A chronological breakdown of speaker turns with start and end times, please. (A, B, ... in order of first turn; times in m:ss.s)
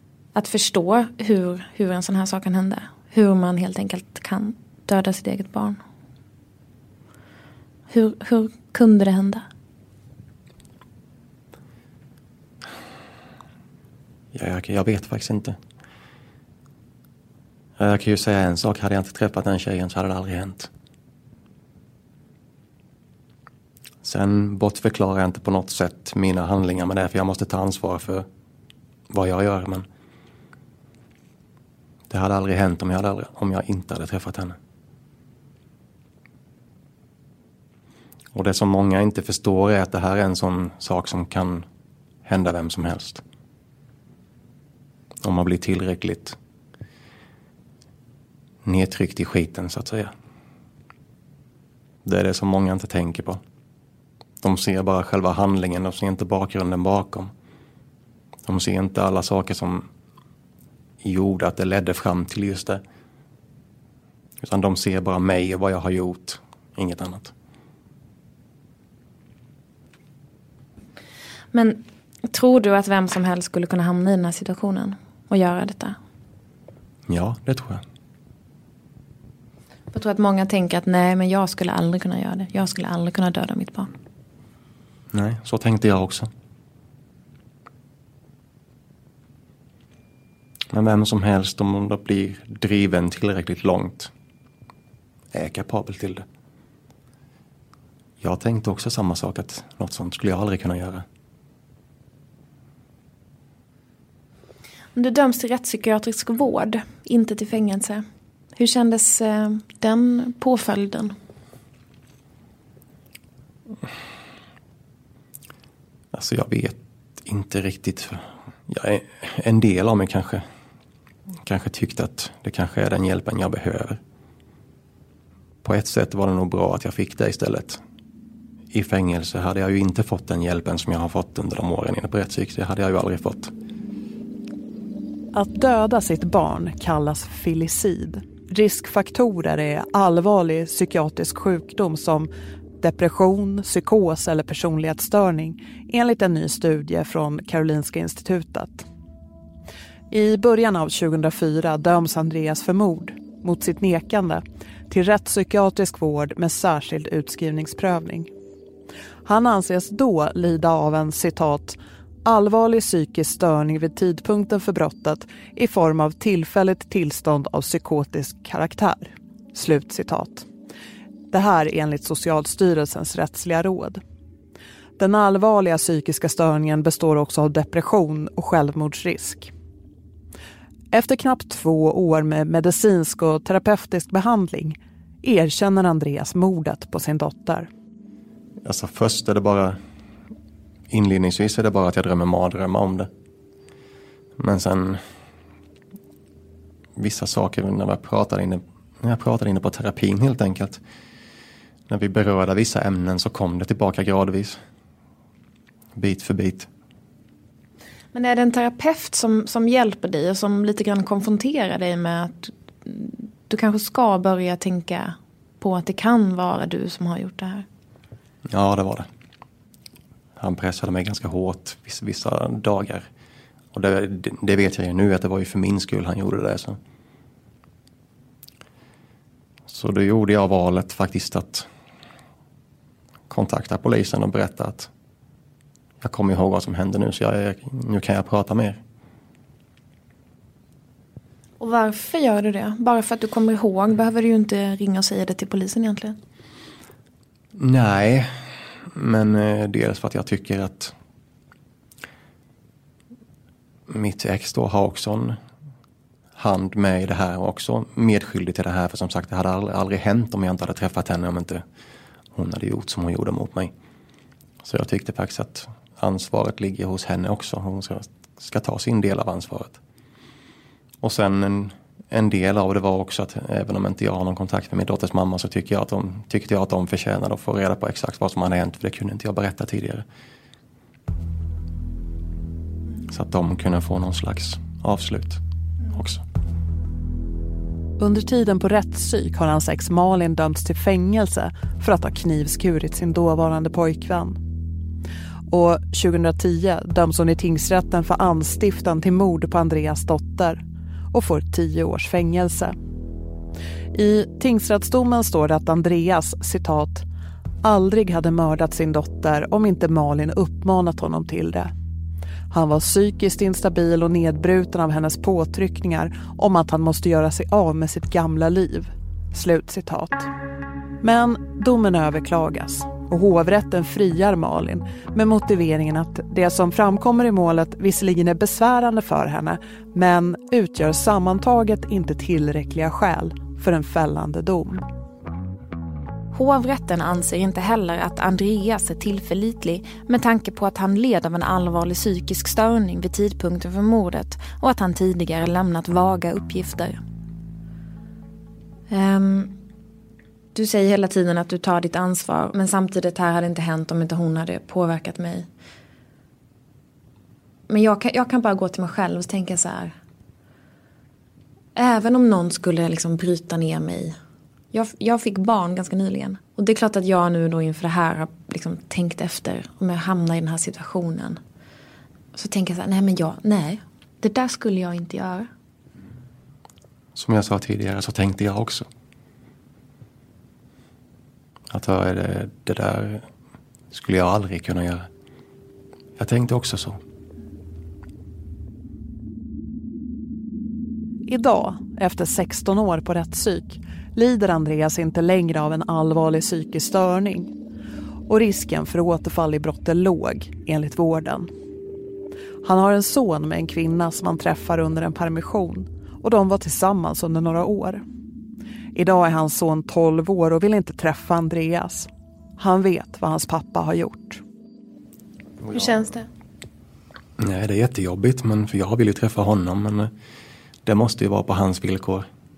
0:00.4-0:05.8 A
0:07.9-0:09.4 A
0:14.3-0:15.6 B
0:17.8-0:20.7 B
0:24.0-0:28.3 B
0:29.1-0:29.9 B
0:32.1-0:34.6 B
0:38.3-0:41.7 B
0:42.2-0:43.2 B
0:45.2-0:46.4 B
0:48.6-0:50.1 B
0:52.0-0:53.4 B
0:54.4-0:57.3 B
0:58.5-0:59.9 B
1:01.0-1:02.8 B
1:04.4-1:07.3 B
1:11.5-1:16.0 A
1:17.1-1:17.8 B
1:19.9-1:23.9 A
1:25.1-1:26.3 B
1:30.7-1:34.1 B
1:35.3-1:36.2 B
1:38.2-1:41.1 B
1:45.0-1:48.0 A
1:48.6-1:51.1 A
1:56.1-2:00.4 B
2:01.4-2:04.0 B
2:05.6-2:07.8 B
2:08.7-2:13.5 B
2:15.3-2:22.3 C
2:22.8-2:28.9 C
2:30.1-2:38.3 C
2:39.2-2:50.5 C
2:51.3-2:54.0 C
2:55.0-2:59.5 C
3:00.9-3:07.7 C
3:08.6-3:09.8 B
3:10.9-3:13.1 B
3:14.4-3:15.0 B
3:17.0-3:20.8 B
3:21.9-3:24.6 B
3:26.0-3:26.7 B
3:28.1-3:37.7 A
3:38.5-3:39.1 B
3:40.4-3:43.1 B
3:43.7-3:46.8 B
3:49.7-3:51.7 B
3:53.3-3:54.9 B
3:56.0-3:58.8 B
4:01.6-4:06.2 A
4:07.6-4:08.3 B
4:08.8-4:11.0 B
4:13.9-4:15.4 B
4:16.4-4:21.6 B
4:22.3-4:23.7 B
4:24.6-4:29.8 B
4:31.0-4:40.0 B
4:43.0-4:46.2 B
4:48.0-4:54.4 C
4:55.5-5:02.8 C
5:03.9-5:07.1 C
5:07.6-5:11.7 C
5:12.5-5:20.3 C
5:21.0-5:34.8 C
5:36.3-5:47.0 A
5:48.9-5:49.6 A
5:50.6-5:55.5 A
5:57.7-6:00.0 A
6:01.8-6:04.2 A
6:04.7-6:11.4 A
6:12.3-6:15.5 A
6:17.2-6:18.9 B
6:21.7-6:23.3 B
6:23.9-6:25.1 B
6:26.2-6:27.0 B
6:31.3-6:37.5 C
6:38.3-6:41.5 C
6:42.6-6:48.0 C
6:49.0-6:54.4 C
6:55.7-6:56.3 A
6:57.4-7:00.1 B
7:00.8-7:02.3 B